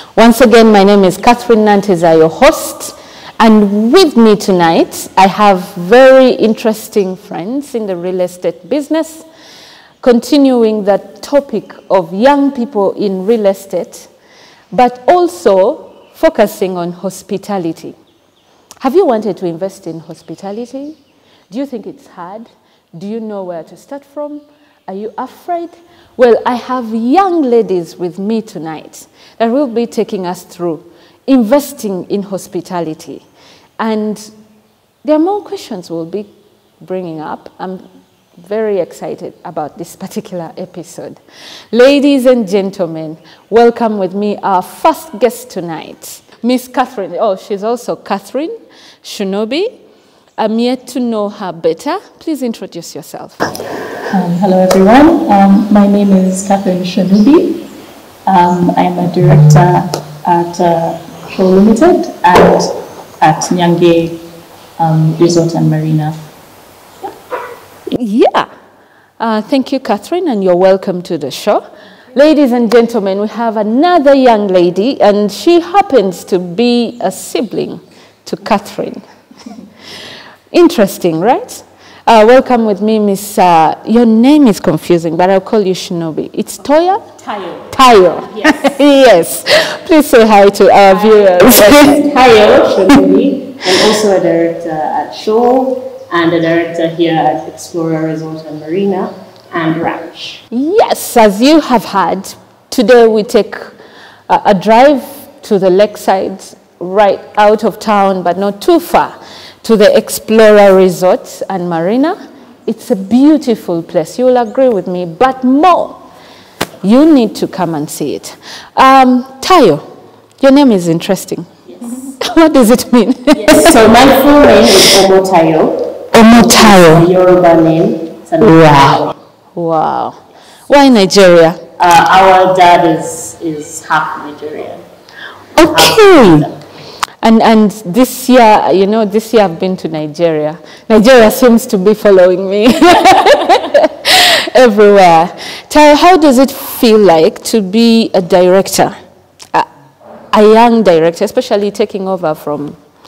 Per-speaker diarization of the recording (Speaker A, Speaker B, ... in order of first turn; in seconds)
Speaker A: 0.2-9.2, 10.0-14.1, 14.7-17.9, 18.8-21.0, 21.5-33.2, 33.8-34.3, 35.0-36.3, 36.8-37.8, 38.4-41.2, 41.7-49.7, 50.4-53.4, 67.9-68.5, 69.2-79.0, 80.5-87.0, 87.7-92.1, 100.5-103.8, 104.3-116.0, 116.8-119.8, 120.4-121.5, 122.2-123.8, 126.1-127.1, 128.4-131.6, 135.6-136.5, 137.2-149.0, 150.3-152.8
Speaker B: 54.1-57.7, 58.3-64.2, 64.8-66.2
Speaker C: 87.2-87.6, 90.9-100.4, 121.7-122.0, 123.4-129.2, 131.8-134.8, 135.6-136.6